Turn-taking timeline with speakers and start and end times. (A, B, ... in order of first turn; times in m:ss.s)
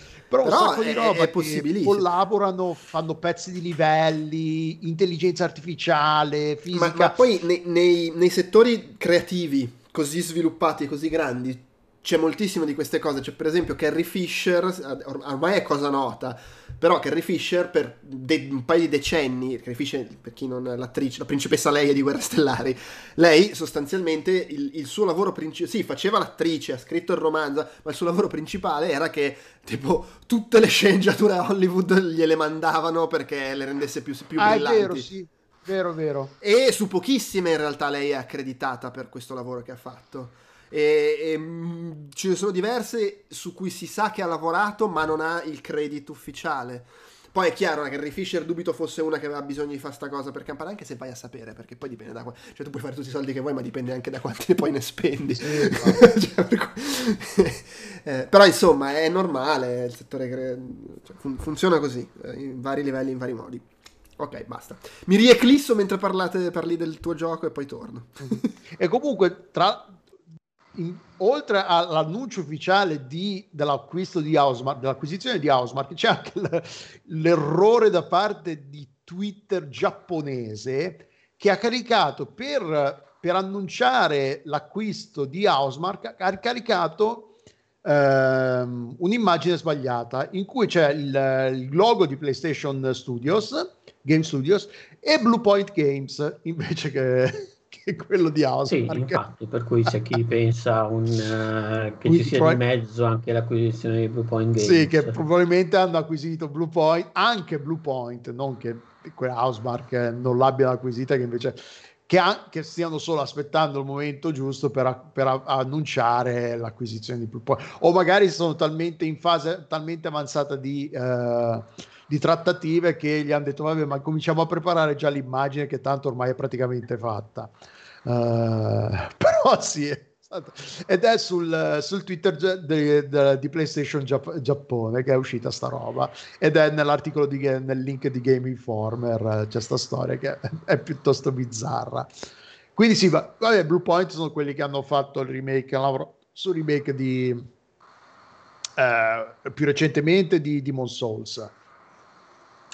0:00.3-0:07.2 A
0:00.4-0:02.1 B
0:06.7-0:35.1 B
0:34.4-0:36.3 A
0:36.4-1:03.7 B
0:55.4-0:56.0 A
1:04.2-1:08.5 B
1:08.8-1:10.0 A
1:10.7-1:27.3 A
1:27.8-1:39.2 A
1:38.7-1:45.2 C
1:42.1-1:42.6 A
1:44.6-2:07.5 A
2:08.0-2:22.1 A
2:22.7-2:27.5 A
2:28.8-2:31.5 A